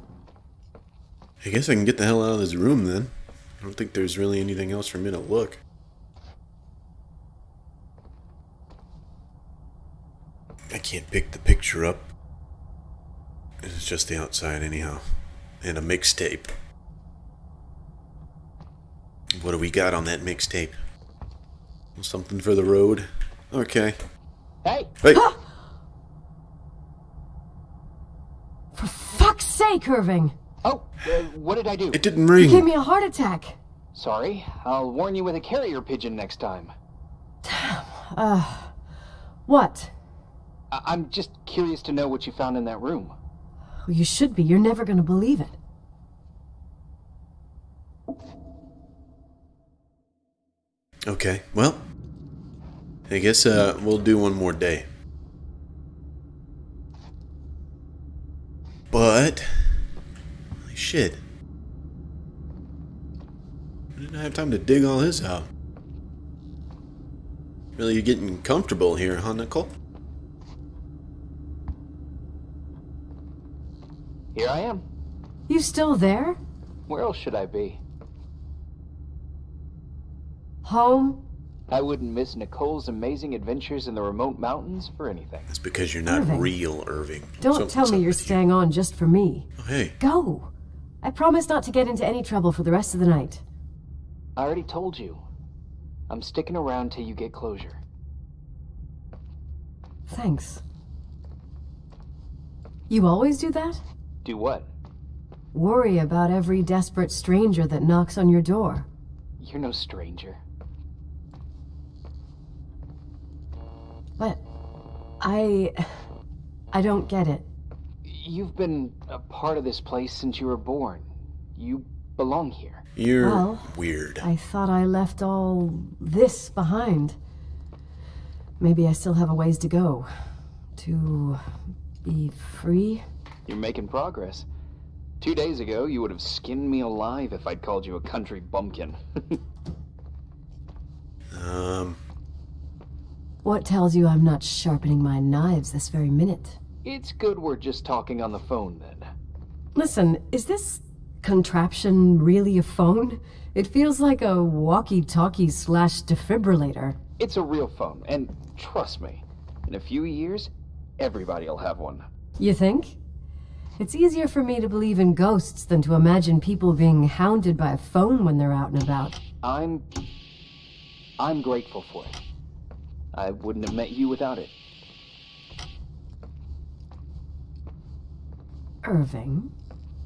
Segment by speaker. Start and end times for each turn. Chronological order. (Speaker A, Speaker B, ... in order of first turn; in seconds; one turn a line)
Speaker A: 1.4-5.6
Speaker A: 10.7-12.1
Speaker A: 13.6-15.0
Speaker A: 15.6-16.5
Speaker A: 19.3-20.7
Speaker A: 21.9-24.0
Speaker B: 24.6-24.9
Speaker C: 25.1-25.5
Speaker C: 28.7-30.3
Speaker B: 30.6-32.0
Speaker A: 31.9-32.7
Speaker C: 32.4-33.6
Speaker B: 33.9-36.7
Speaker C: 37.4-38.7
Speaker C: 39.5-39.9
Speaker B: 40.7-43.1
Speaker C: 43.9-45.6
Speaker A: 51.0-51.8
Speaker A: 53.1-54.9
Speaker A: 58.9-59.8
Speaker A: 60.6-61.2
Speaker A: 63.9-65.5
Speaker A: 67.8-69.7
Speaker B: 74.3-74.8
Speaker C: 75.5-76.4
Speaker B: 76.9-77.8
Speaker C: 80.6-81.2
Speaker B: 81.7-85.5
Speaker A: 85.5-88.4
Speaker C: 86.1-86.5
Speaker C: 87.4-89.5
Speaker A: 89.6-89.9
Speaker C: 90.0-90.5
Speaker C: 91.0-93.4
Speaker B: 94.4-95.2
Speaker B: 96.1-97.8
Speaker C: 100.1-100.6
Speaker C: 102.9-103.8
Speaker B: 104.2-104.7
Speaker C: 105.5-108.9
Speaker B: 109.4-110.4
Speaker C: 115.2-116.0
Speaker C: 116.7-117.5
Speaker B: 118.0-121.0
Speaker B: 121.5-122.8
Speaker A: 123.0-124.2
Speaker C: 123.2-127.2
Speaker C: 128.6-130.1
Speaker C: 130.8-131.4
Speaker C: 132.0-133.0
Speaker B: 133.5-134.4
Speaker B: 135.2-139.4
Speaker A: 141.3-142.0
Speaker C: 143.4-146.6
Speaker B: 146.8-149.1
Speaker C: 149.7-157.0
Speaker B: 157.2-162.1
Speaker C: 162.4-163.0
Speaker C: 163.8-169.2
Speaker B: 169.4-169.8
Speaker B: 171.2-172.2
Speaker B: 173.1-174.5
Speaker C: 178.8-179.5